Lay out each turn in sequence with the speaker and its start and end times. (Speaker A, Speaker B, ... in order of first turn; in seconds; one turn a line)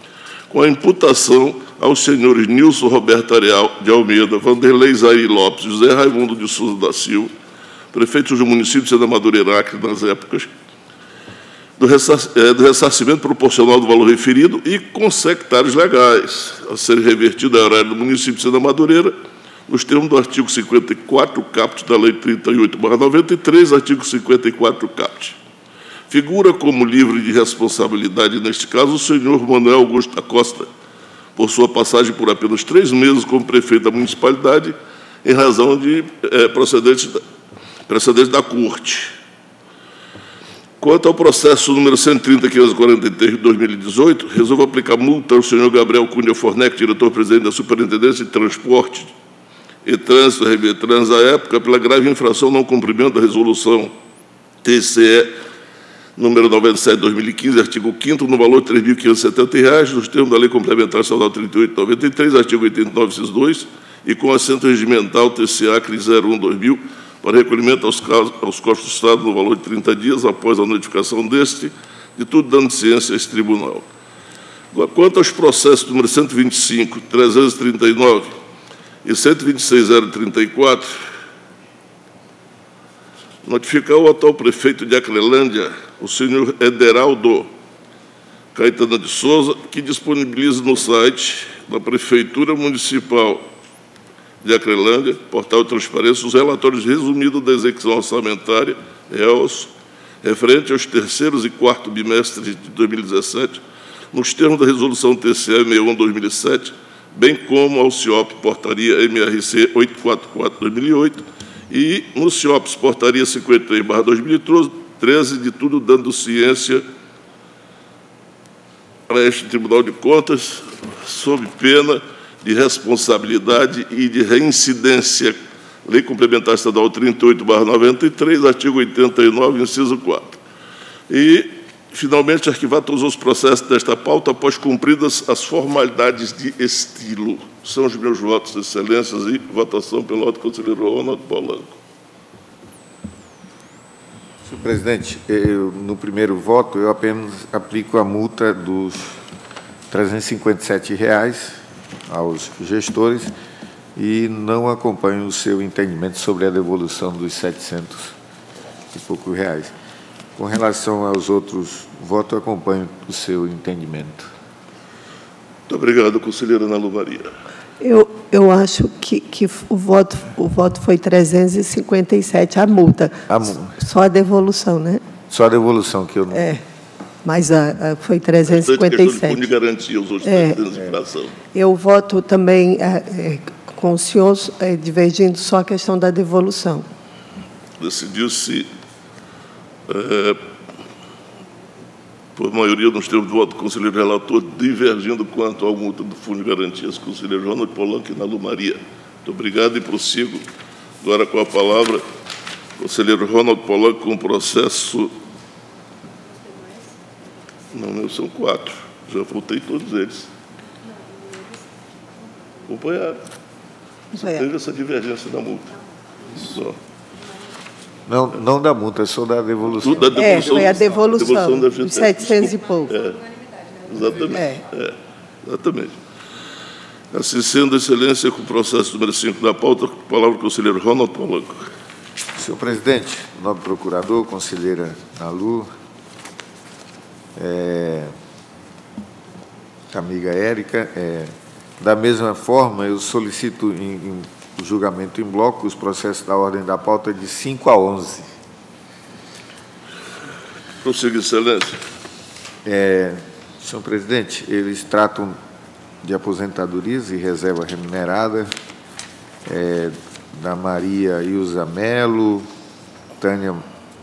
Speaker A: 0.5-7.3
Speaker A: 7.9-10.5
Speaker A: 11.8-19.1
Speaker A: 19.7-25.4
Speaker A: 26.1-30.7
Speaker A: 31.4-37.2
Speaker A: 37.9-39.1
Speaker A: 40.8-49.1
Speaker A: 49.8-53.9
Speaker A: 54.6-55.3
Speaker A: 56.2-73.8
Speaker A: 74.7-78.3
Speaker A: 79.0-81.0
Speaker A: 83.4-87.5
Speaker A: 88.5-93.4
Speaker A: 94.4-99.7
Speaker A: 100.2-116.8
Speaker A: 119.1-130.4
Speaker A: 131.1-141.7
Speaker B: 144.4-149.2
Speaker B: 149.9-153.3
Speaker B: 153.9-158.1
Speaker B: 158.9-159.7
Speaker B: 160.4-164.3
Speaker A: 165.7-167.3
Speaker C: 167.8-175.0
Speaker B: 173.3-173.7
Speaker B: 175.3-176.5
Speaker C: 176.3-176.6
Speaker C: 177.2-179.4
Speaker A: 178.5-181.3
Speaker C: 180.2-180.6
Speaker C: 181.5-186.9
Speaker A: 187.8-188.7
Speaker A: 189.9-190.4
Speaker A: 192.3-200.4
Speaker A: 201.0-202.0
Speaker A: 202.8-205.1
Speaker A: 207.7-210.3
Speaker A: 212.7-213.2
Speaker C: 214.1-214.4
Speaker A: 214.3-215.8
Speaker A: 216.3-216.8
Speaker B: 218.1-220.2
Speaker A: 219.8-226.0
Speaker C: 220.2-222.9
Speaker C: 224.3-224.6
Speaker A: 227.1-231.7
Speaker B: 232.3-235.7
Speaker B: 237.3-238.1
Speaker B: 239.9-248.3
Speaker A: 250.8-251.8
Speaker B: 252.6-255.4
Speaker B: 256.0-258.5
Speaker B: 259.4-262.5
Speaker B: 263.2-263.6